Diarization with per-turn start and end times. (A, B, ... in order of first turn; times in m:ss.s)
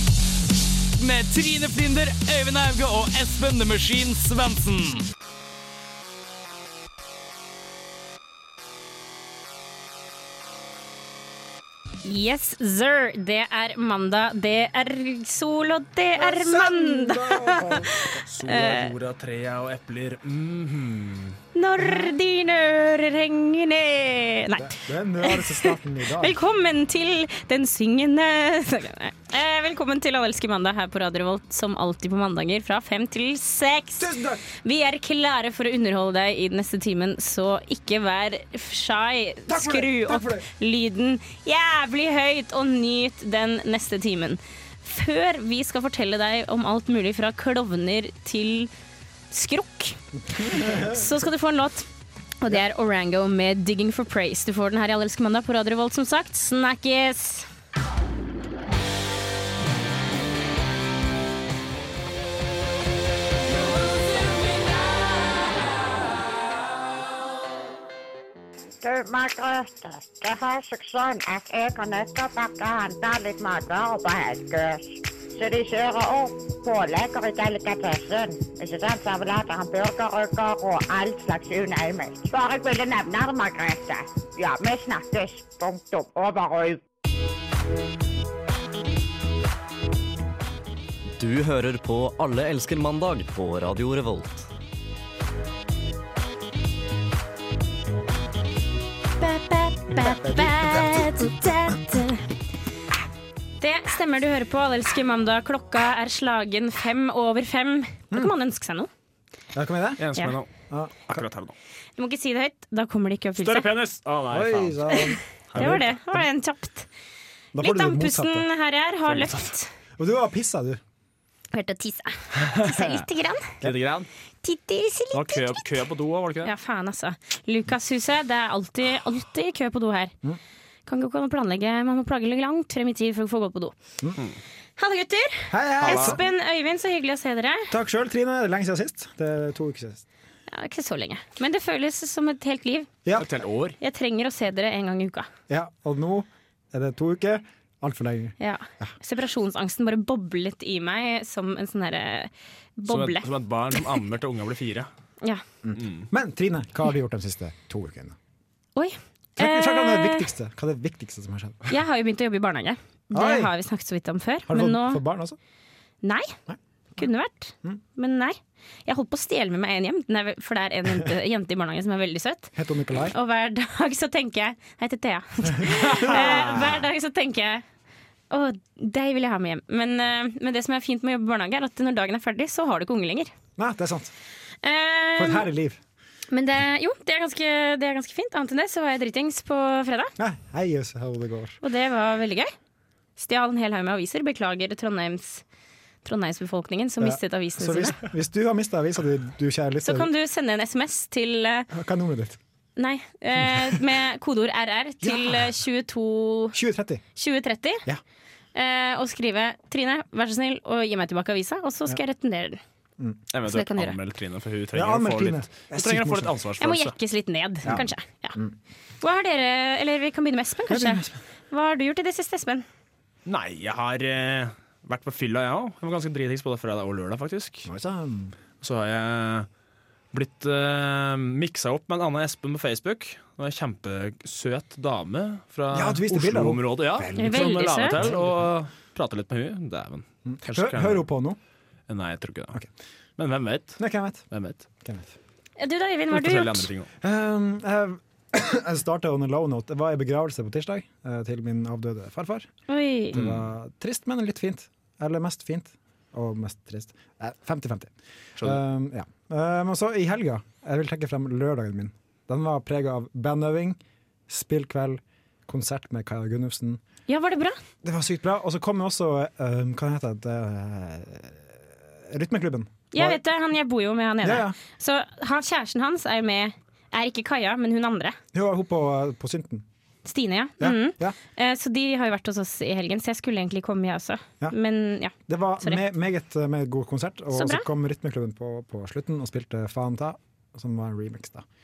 0:01.0-0:05.0 A
0:12.0-0:18.9 B
0:16.1-0:17.9 C
0:18.2-0:21.4 D
0:21.5-0:48.7 B
0:24.6-0:26.4 C
0:34.0-0:34.4 C
0:39.5-0:40.5 C
0:49.3-0:51.8 B
0:50.4-0:51.0 C
0:52.4-0:57.5 B
1:08.8-1:26.8 E
1:31.2-1:34.4 F
1:39.2-1:42.2 B
1:40.0-1:41.3 C
1:43.6-1:48.9 B
1:49.5-1:50.0 C
1:50.0-1:50.5 D
1:50.7-1:51.2 C
1:51.0-1:51.5 D
1:52.0-1:53.7 B
1:53.4-1:55.9 D
1:54.3-1:56.2 C
1:55.6-1:56.9 B
1:57.5-1:58.5 C
1:57.6-1:59.7 B
2:00.0-2:00.8 C
2:01.5-2:03.6 B
2:02.4-2:03.0 D
2:03.6-2:04.1 D
2:04.4-2:05.6 B
2:05.1-2:06.5 D
2:06.4-2:10.1 B
2:10.9-2:13.7 B
2:14.8-2:17.7 B
2:15.5-2:16.2 C
2:15.9-2:16.2 D
2:17.7-2:20.0 C
2:20.5-2:22.9 B
2:23.2-2:23.8 D
2:23.8-2:25.3 B
2:25.5-2:28.9 C
2:28.4-2:33.3 B
2:32.9-2:34.9 D
2:35.6-2:38.1 C
2:35.8-2:36.0 D
2:38.8-2:40.3 B
2:39.4-2:41.7 C
2:41.7-2:45.0 B
2:43.1-2:43.5 C
2:44.5-2:45.4 C
2:46.0-2:46.3 B
2:47.0-2:52.5 B
2:52.6-2:53.1 C
2:53.1-2:57.6 B
2:55.5-2:56.8 C
2:58.3-3:03.3 B
3:03.6-3:04.1 C
3:04.6-3:05.5 B
3:05.2-3:05.8 C
3:06.3-3:10.1 B
3:10.2-3:11.6 C
3:11.6-3:12.5 B
3:13.2-3:15.4 B
3:16.0-3:18.0 B
3:17.0-3:20.1 C
3:19.8-3:21.7 B
3:21.7-3:22.4 C
3:22.8-3:26.6 B
3:25.0-3:25.5 C
3:26.5-3:27.0 C
3:27.2-3:27.8 B
3:28.5-3:32.6 B
3:33.3-3:36.9 D
3:33.4-3:34.0 B
3:34.7-3:36.3 C
3:36.6-3:38.4 B
3:37.6-3:38.5 C
3:39.0-3:42.6 B
3:40.7-3:41.2 C
3:43.2-3:47.7 D
3:47.6-3:48.4 C
3:48.6-3:49.5 D
3:50.1-4:01.0 D
3:55.7-3:58.4 C
3:57.1-3:58.0 B
4:00.2-4:01.4 C
4:01.9-4:02.6 D
4:03.2-4:03.8 D
4:03.8-4:04.2 C
4:04.3-4:04.6 D
4:04.8-4:05.1 C
4:05.6-4:06.7 B
4:06.1-4:06.9 D
4:07.0-4:12.5 C
4:12.7-4:13.2 B
4:13.1-4:26.8 C
4:13.1-4:13.4 D
4:27.1-4:27.6 B
4:27.8-4:33.2 C
4:32.9-4:38.2 B
4:34.2-4:34.6 C
4:38.3-4:39.6 C
4:40.0-4:45.8 B
4:40.6-4:41.2 C
4:45.3-4:51.4 C
4:47.3-4:47.6 B